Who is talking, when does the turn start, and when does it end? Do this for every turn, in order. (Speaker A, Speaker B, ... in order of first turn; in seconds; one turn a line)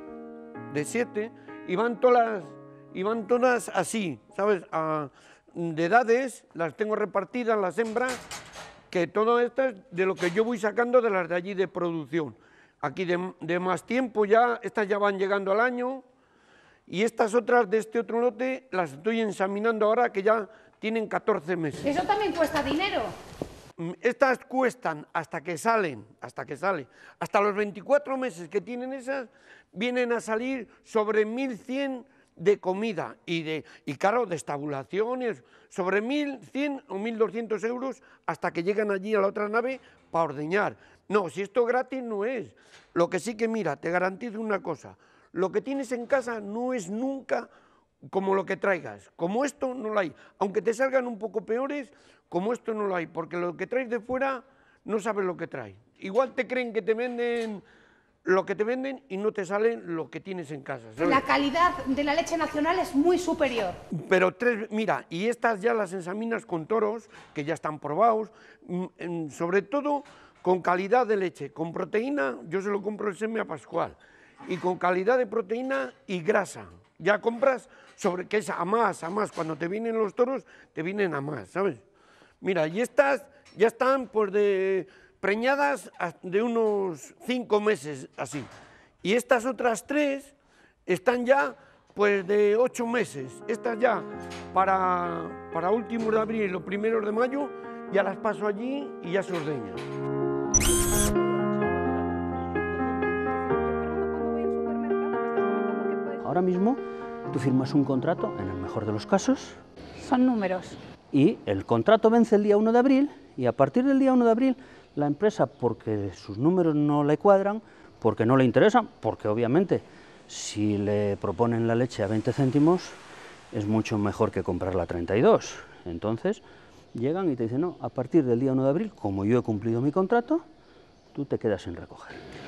Speaker A: 0.7-8.2
Speaker A: 8.9-16.0
Speaker A: 16.9-22.0
Speaker B: 21.8-23.1
Speaker A: 23.8-47.5
Speaker A: 48.1-57.6
Speaker A: 58.2-61.2
Speaker B: 61.0-63.8
Speaker A: 63.9-81.8
Speaker A: 82.4-88.5
Speaker A: 89.0-90.3
Speaker A: 90.9-99.8
Speaker C: 100.9-103.2
Speaker B: 103.2-106.3
Speaker C: 106.2-109.6
Speaker B: 110.0-110.8
Speaker C: 111.1-123.0
Speaker C: 123.5-126.4
Speaker C: 126.9-130.4
Speaker C: 131.1-132.2